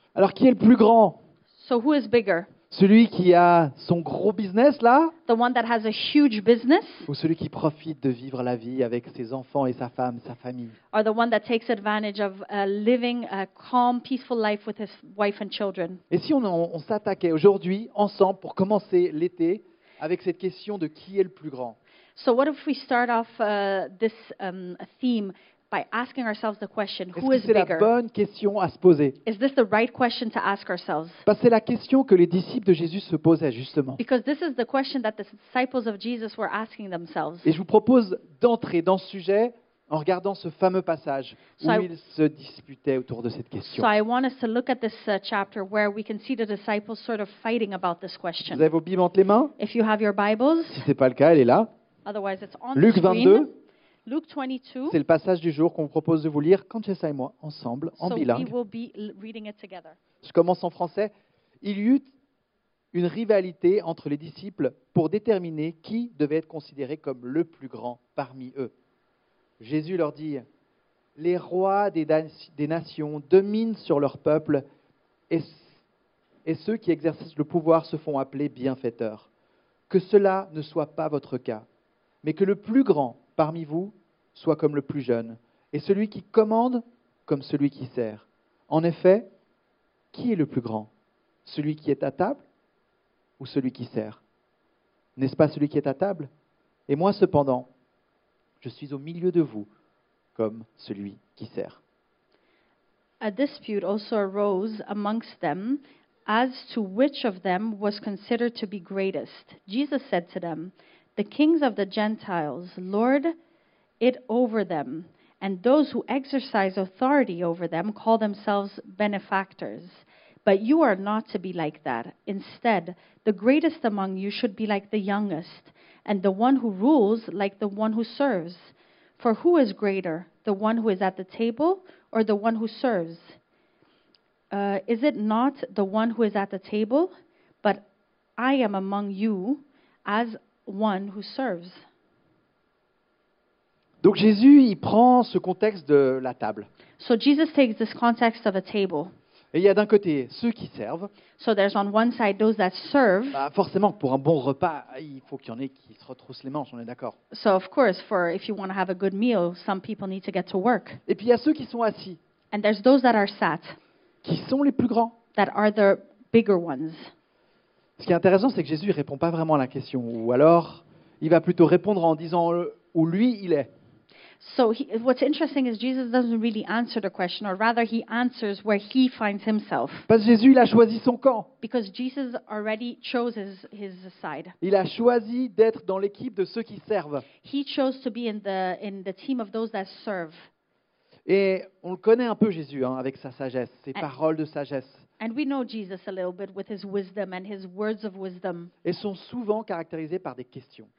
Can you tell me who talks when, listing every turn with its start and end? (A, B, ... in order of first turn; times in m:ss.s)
0:00.2-0:01.2 A
0:01.6-0:02.5 B
0:02.7-0:05.1 A
0:05.3-0:07.1 B
0:07.1-0:10.8 A
0:10.9-0:16.0 B
0:16.1-0:21.8 A
0:22.2-0:27.9 B
0:27.2-0:29.2 A
0:29.2-0:31.2 B
0:31.2-0:34.0 A
0:34.0-0:37.5 B
0:37.4-0:43.9 A
0:41.6-0:41.9 B
0:43.6-0:48.7 B
0:48.5-0:49.5 A
0:49.6-0:50.8 B
0:50.7-0:51.7 A
0:52.0-0:53.5 B
0:52.8-0:53.5 A
0:54.1-0:55.0 B
0:54.9-0:58.5 A
0:58.0-1:00.0 B
1:00.2-1:02.1 A
1:02.9-1:08.7 A
1:09.6-1:10.4 A
1:11.2-1:14.6 A
1:15.3-1:15.7 A
1:16.5-1:19.3 A
1:19.9-1:21.7 A
1:22.2-1:29.3 A
1:30.1-1:30.9 A
1:31.4-1:32.4 A
1:33.4-1:34.2 A
1:35.2-1:36.3 A
1:36.9-1:37.7 A
1:38.6-1:39.7 A
1:40.4-1:41.8 A
1:43.2-1:53.3 B
1:54.0-2:13.4 B
2:14.5-2:17.1 B
2:18.4-2:21.8 B
2:24.0-2:26.7 A
2:27.0-2:29.1 B
2:29.5-2:31.1 A
2:31.4-2:33.4 B
2:33.3-2:37.2 A
2:37.3-2:41.0 B
2:41.1-2:42.2 A
2:42.5-2:43.8 B
2:44.2-2:45.2 A
2:45.4-2:47.1 B
2:48.0-2:53.7 A
2:54.4-3:00.1 B
3:00.1-3:01.5 A
3:01.6-3:04.6 B
3:04.6-3:07.2 A
3:07.4-3:10.5 B
3:11.3-3:15.1 A
3:15.2-3:18.7 B
3:18.8-3:20.9 A